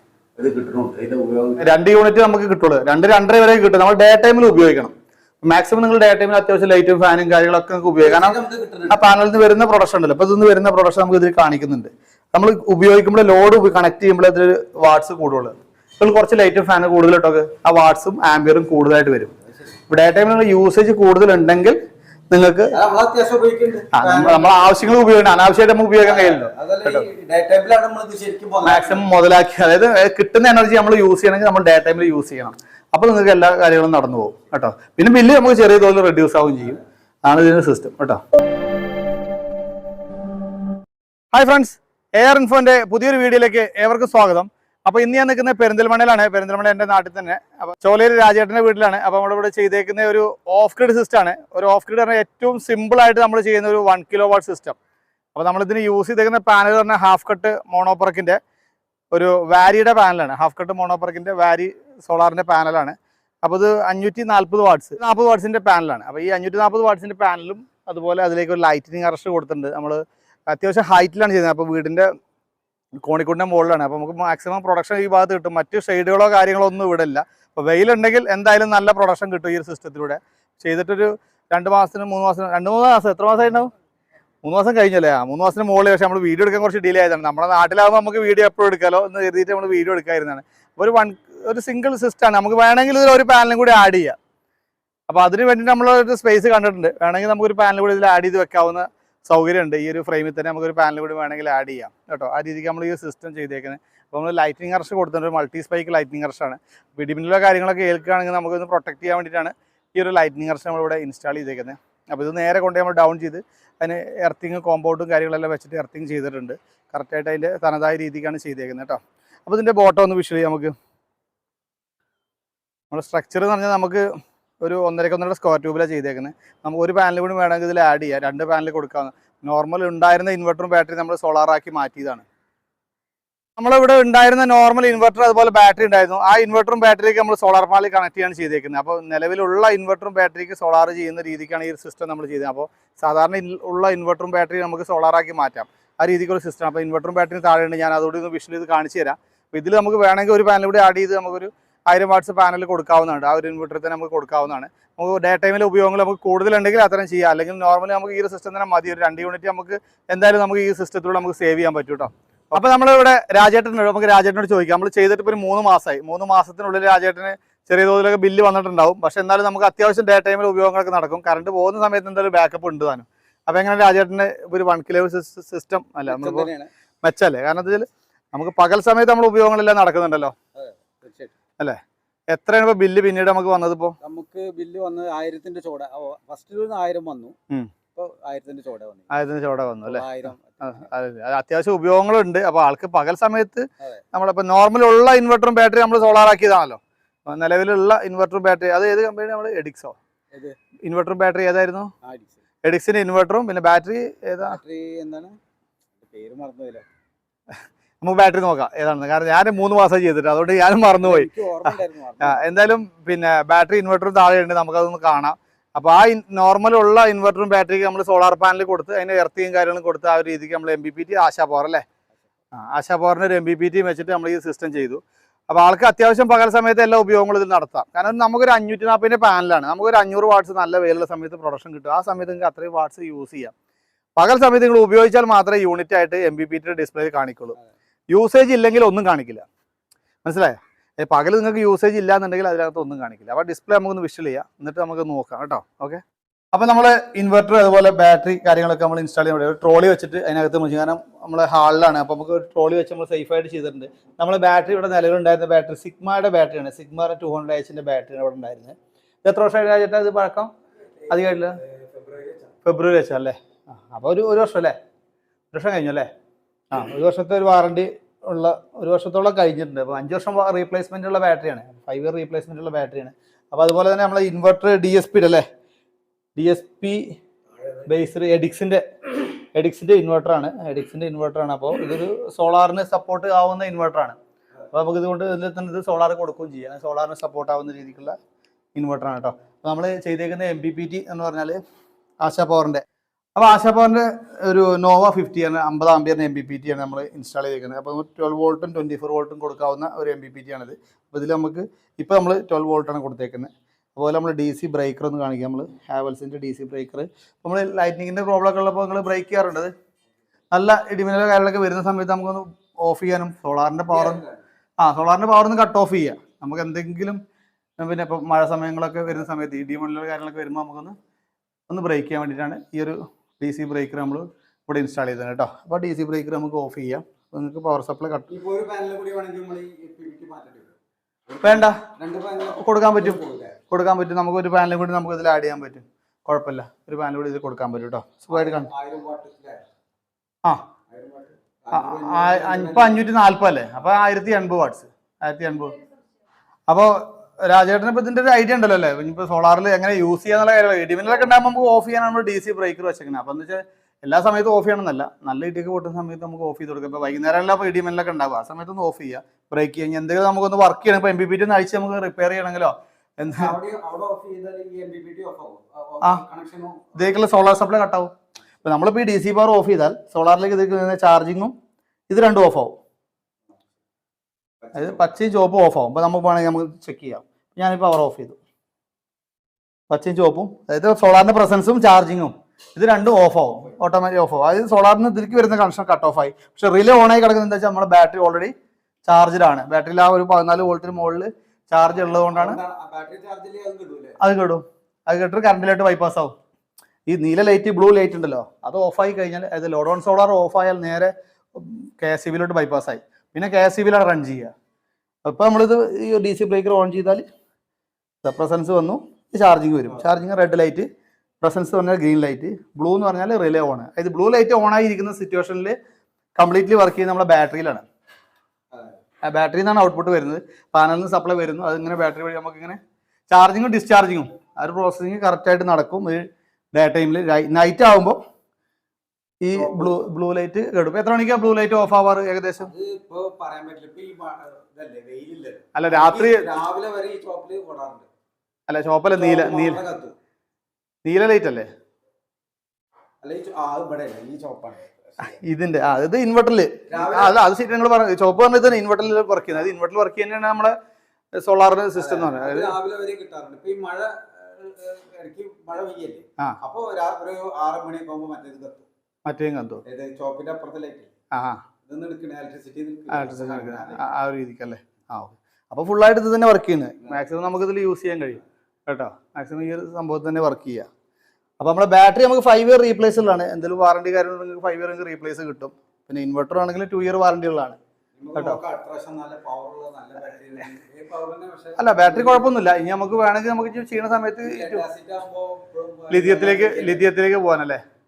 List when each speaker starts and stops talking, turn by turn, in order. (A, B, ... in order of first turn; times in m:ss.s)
0:00.4-0:01.7 A
0:01.6-0:08.4 B
0:08.0-0:09.0 A
0:08.9-0:19.3 B
0:19.9-0:21.8 B
0:22.3-0:22.8 B
0:22.7-0:24.6 A
0:23.9-0:27.1 B
0:26.0-0:29.1 A
0:28.6-0:38.2 B
0:41.3-0:54.8 B
0:55.4-0:58.4 B
0:59.1-1:12.1 B
1:13.0-1:23.7 B
1:24.4-1:34.2 B
1:35.1-2:00.7 B
2:02.9-2:04.0 B
2:04.6-2:12.2 B
2:13.6-2:56.5 B
2:56.1-2:56.7 A
2:57.0-3:00.4 B
3:00.6-3:01.3 A
3:02.3-3:04.0 B
3:04.0-3:07.4 A
3:08.0-3:09.1 A
3:09.1-3:20.0 B
3:09.8-3:10.8 A
3:20.8-3:21.9 B
3:22.0-3:22.4 A
3:22.6-3:24.6 B
3:24.4-3:25.4 A
3:26.0-3:26.8 A
3:28.0-3:41.8 B
3:30.9-3:32.4 A
3:42.5-3:53.5 B
3:54.2-3:57.6 B
3:58.1-3:59.4 B
4:00.2-4:06.0 B
4:06.5-4:20.5 B
4:21.1-4:21.6 B
4:21.1-4:22.5 A
4:22.6-4:24.8 B
4:25.5-4:26.1 B
4:26.7-4:35.4 B
4:36.4-4:37.2 B
4:37.8-4:44.2 B
4:44.7-4:48.2 B
4:48.8-4:51.6 B
4:52.2-4:52.8 B
4:53.4-5:09.7 B
5:10.5-5:14.2 B
5:13.9-5:14.4 A
5:14.8-5:17.2 B
5:17.8-5:21.0 B
5:21.7-5:28.3 B
5:28.3-5:30.8 A
5:31.3-5:33.6 A
5:31.4-5:31.8 B
5:32.6-5:38.7 B
5:38.3-5:39.6 A
5:40.9-5:43.0 A
5:41.7-5:45.8 B
5:46.7-6:03.6 B
6:03.3-6:07.1 A
6:07.0-6:08.1 B
6:08.6-6:11.5 B
6:12.1-6:12.7 B
6:14.7-6:18.4 B
6:19.9-6:28.5 B
6:29.1-6:32.6 B
6:32.0-6:34.2 A
6:34.2-6:36.4 B
6:37.1-6:44.5 B
6:45.2-6:47.2 B
6:48.2-6:50.9 B
6:51.4-6:55.8 B
6:56.4-6:57.8 B
6:59.3-7:02.8 B
7:03.3-7:08.2 B
7:09.4-7:12.7 B
7:09.5-7:10.0 A
7:12.6-7:18.1 A
7:15.8-7:16.4 B
7:18.7-7:19.8 B
7:19.1-7:20.2 A
7:21.0-7:21.7 B
7:23.2-7:25.3 A
7:25.2-7:30.8 B
7:26.9-7:27.4 A
7:31.4-7:32.8 B
7:32.0-7:38.9 A
7:39.3-7:39.8 B
7:39.9-7:41.1 A
7:41.3-7:41.6 B
7:41.9-7:44.0 A
7:43.1-7:50.9 B
7:51.6-7:57.8 B
7:58.2-8:02.5 A
8:01.8-8:04.8 B
8:04.4-8:07.1 A
8:06.1-8:07.8 B